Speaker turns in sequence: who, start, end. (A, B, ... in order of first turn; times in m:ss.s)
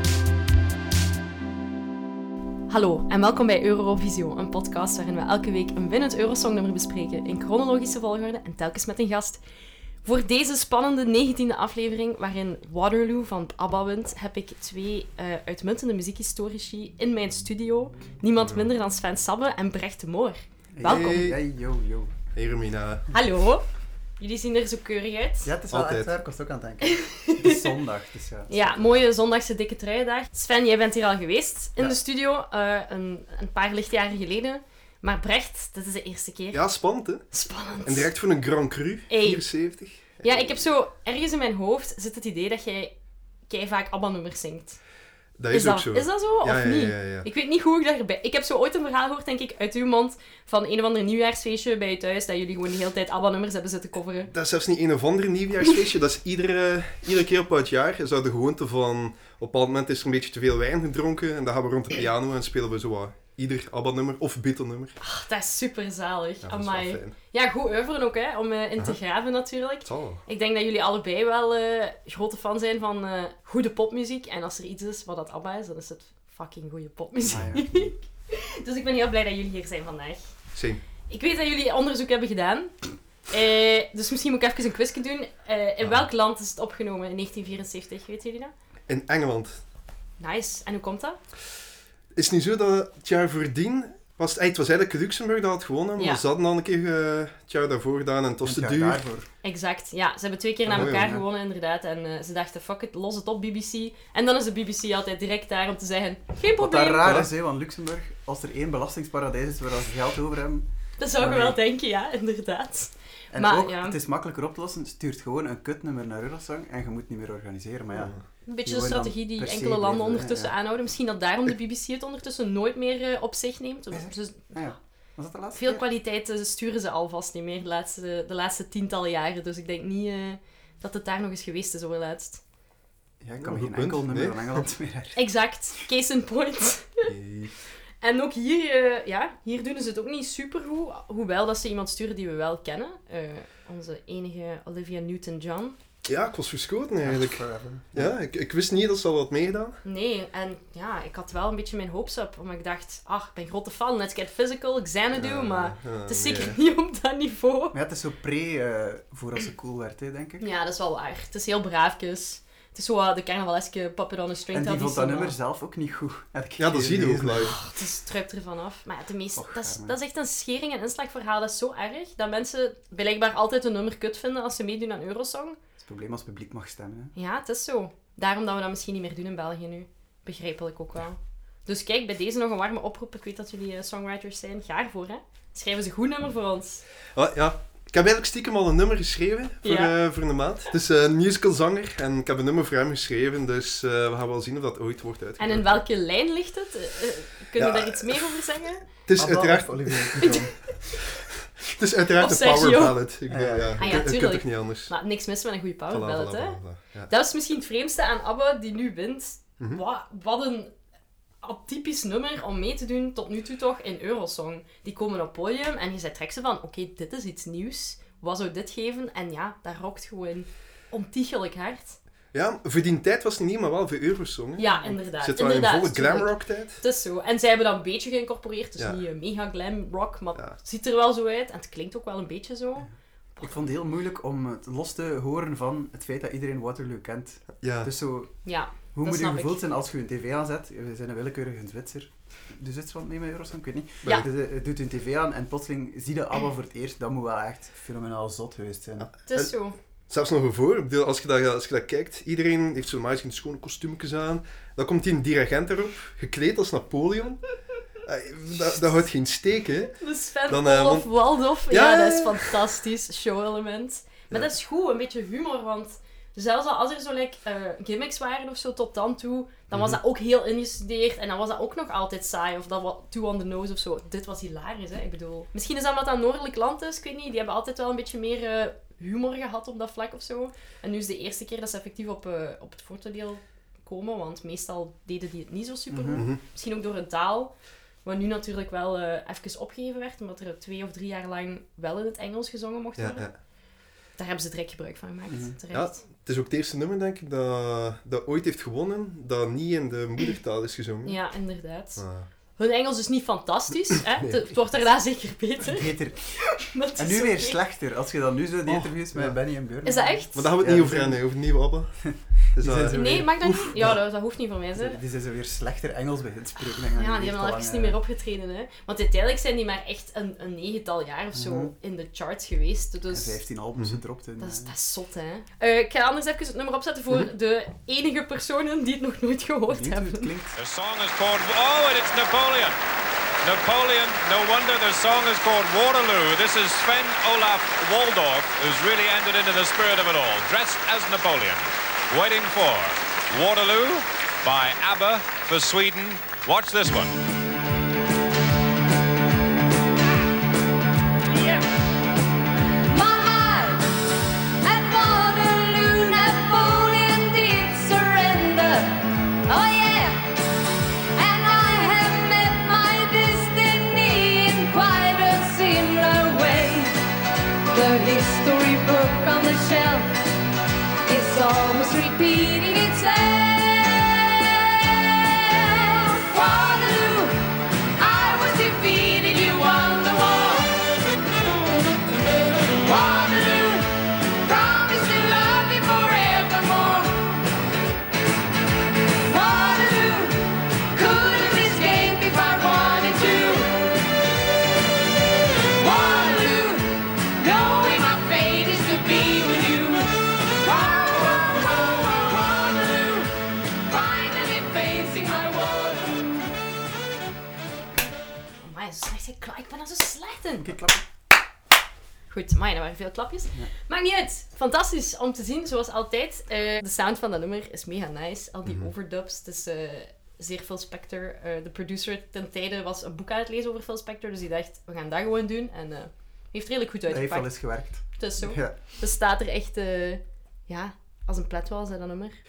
0:02.7-0:09.4 A
0:10.0-0:21.3 A
0:20.7-0:22.1 B
0:20.8-0:21.4 C
0:22.3-0:23.1 C
0:23.1-0:23.6 A
0:24.2-0:25.5 A
0:25.4-0:29.0 B
0:25.7-0:26.1 C
0:26.8-0:27.7 A
0:28.5-0:36.6 A
0:36.5-0:37.2 C
0:37.3-0:38.1 A
0:37.8-0:40.6 C
0:39.1-0:39.4 A
0:40.2-0:42.9 A
0:43.5-0:44.8 A
0:45.4-0:47.3 C
0:45.5-0:54.3 A
0:54.3-1:05.0 C
1:05.0-1:20.2 A
1:06.4-1:07.1 C
1:09.8-1:10.2 C
1:17.2-1:17.9 B
1:20.5-1:20.8 C
1:21.1-1:28.5 A
1:28.9-1:29.6 C
1:30.2-1:31.2 A
1:32.1-1:39.0 C
1:36.0-1:36.2 A
1:38.4-1:39.3 B
1:39.4-1:47.1 A
1:40.6-1:41.2 B
1:40.7-1:41.2 C
1:46.6-1:50.6 B
1:51.0-1:54.0 A
1:51.2-1:51.6 B
1:53.3-2:00.5 B
1:57.9-1:58.2 C
1:58.4-2:04.7 A
2:03.9-2:05.8 B
2:05.5-2:12.4 A
2:13.2-2:15.3 B
2:13.4-2:14.6 C
2:15.1-2:17.1 A
2:17.0-2:17.5 C
2:18.0-2:25.8 A
2:26.0-2:29.8 C
2:27.0-2:28.2 B
2:29.8-2:37.7 A
2:35.1-2:36.6 C
2:37.7-2:40.4 B
2:40.4-2:45.4 A
2:44.5-2:47.6 B
2:46.6-2:47.6 C
2:47.4-2:55.6 A
2:49.4-2:50.0 B
2:55.8-2:57.1 B
2:57.1-3:06.8 A
3:07.1-3:15.7 C
3:09.6-3:09.9 A
3:15.4-3:18.8 A
3:17.6-3:18.4 C
3:19.0-3:20.4 C
3:19.2-3:20.8 B
3:20.2-3:20.5 A
3:21.6-3:24.9 C
3:22.2-3:23.0 A
3:23.3-3:24.1 B
3:23.8-3:30.7 A
3:25.9-3:27.1 C
3:31.4-3:42.0 A
3:42.3-3:46.8 C
3:44.6-3:53.5 A
3:53.4-3:58.3 B
3:57.6-3:57.9 C
3:58.4-3:59.6 A
3:58.9-4:09.1 B
4:09.0-4:09.5 C
4:09.3-4:09.8 A
4:10.1-4:17.5 C
4:18.0-4:21.1 C
4:19.9-4:53.3 A
4:21.7-4:22.6 C
4:29.7-4:30.0 C
4:45.9-4:46.2 B
4:46.1-4:46.4 C
4:53.0-4:53.3 C
4:54.2-4:56.0 A
4:55.3-4:55.6 B
4:55.7-5:01.2 C
5:01.0-5:02.0 A
5:02.0-5:02.3 C
5:02.6-5:07.6 A
5:05.6-5:06.3 B
5:07.0-5:11.2 B
5:08.6-5:09.4 C
5:09.8-5:10.4 A
5:10.3-5:13.9 C
5:12.0-5:14.0 B
5:12.8-5:15.0 A
5:14.8-5:18.0 B
5:16.8-5:23.4 A
5:21.3-5:21.7 B
5:23.1-5:24.7 B
5:24.4-5:30.3 A
5:29.7-5:30.6 B
5:30.6-5:32.8 D
5:33.4-5:47.2 D
5:52.9-5:53.9 E
5:54.6-6:00.3 E
6:01.2-6:07.0 E
6:07.7-6:10.2 E
6:11.0-6:17.4 E
6:18.0-6:20.9 E
6:22.4-6:27.3 E
6:29.2-6:34.0 E
6:35.5-6:46.4 E
6:48.6-6:50.7 A
6:50.6-6:51.0 B
6:52.3-7:12.3 A
7:07.1-7:08.8 B